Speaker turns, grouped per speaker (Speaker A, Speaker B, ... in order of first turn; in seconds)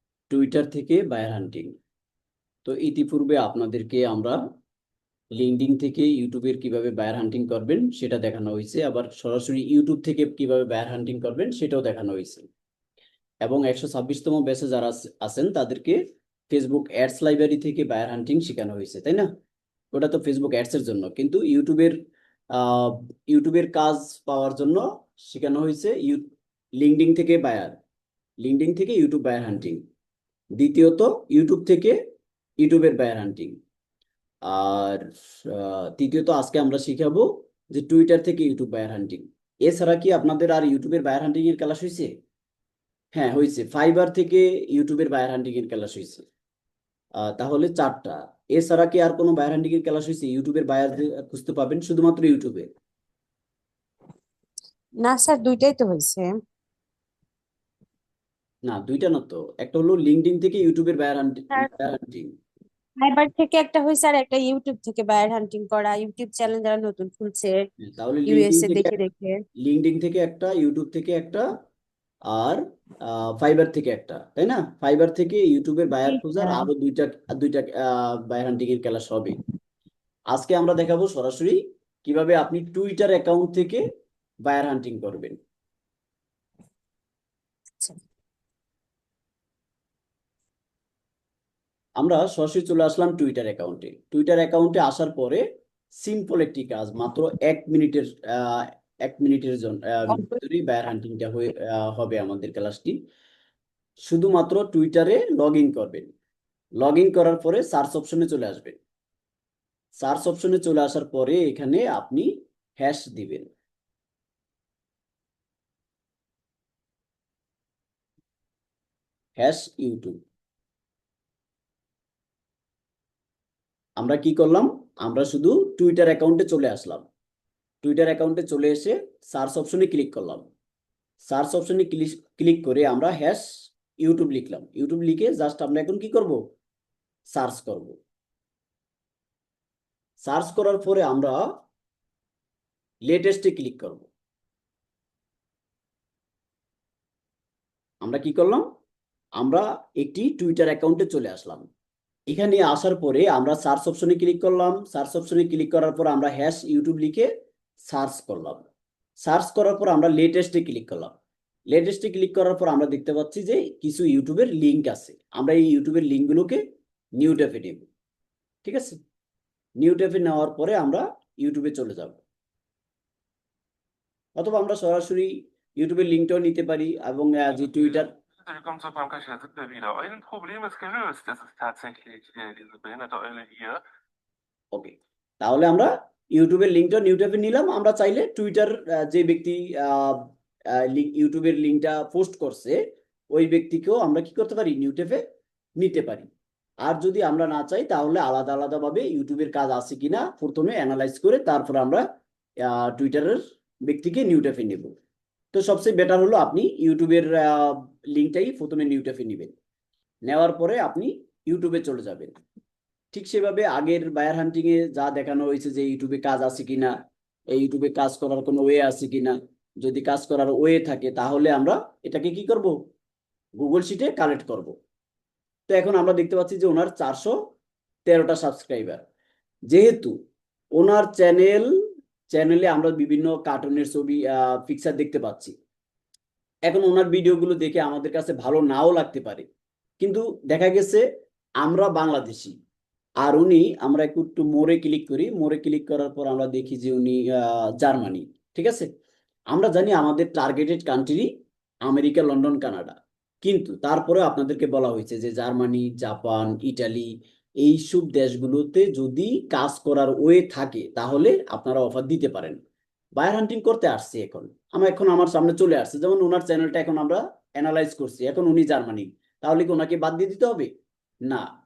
Speaker A: 0.3-1.8, 2.6-4.4, 5.4-12.5, 13.4-16.0, 16.5-19.3, 19.9-21.9, 22.5-26.2, 26.8-27.8, 28.4-29.8, 30.6-32.0, 32.6-33.5, 34.5-42.1, 43.1-46.2, 47.2-52.7, 58.7-62.3, 67.8-69.0, 69.6-71.5, 72.3-79.4, 80.3-83.8, 84.5-85.4, 92.0-95.4, 96.0-103.0, 104.1-106.1, 106.8-108.8, 110.0-113.5, 119.4-120.2, 124.0-127.1, 127.8-130.5, 131.2-136.4, 137.3-138.0, 140.2-141.4, 143.1-144.1, 148.0-148.6, 149.4-151.7, 152.3-157.3, 157.9-158.7, 159.2-161.1, 161.7-166.6, 167.2-167.9, 168.6-169.0, 169.8-172.2, 174.4-178.1, 184.7-192.8, 193.3-195.2, 195.8-196.3, 196.8-202.0, 202.6-204.9, 205.5-209.5, 210.2-212.3, 213.1-216.9, 217.5-222.8, 223.6-224.7, 225.7-227.3, 228.1-229.0, 229.7-230.1, 230.8-231.7, 232.3-235.5, 236.7-239.5, 240.0-241.0, 241.6-242.5, 243.2-248.9, 249.5-251.3, 251.8-257.1, 257.6-262.6, 263.1-270.7
Speaker B: 55.0-56.3, 63.0-67.6, 68.3-69.4, 76.0-76.7
Speaker C: 177.7-183.8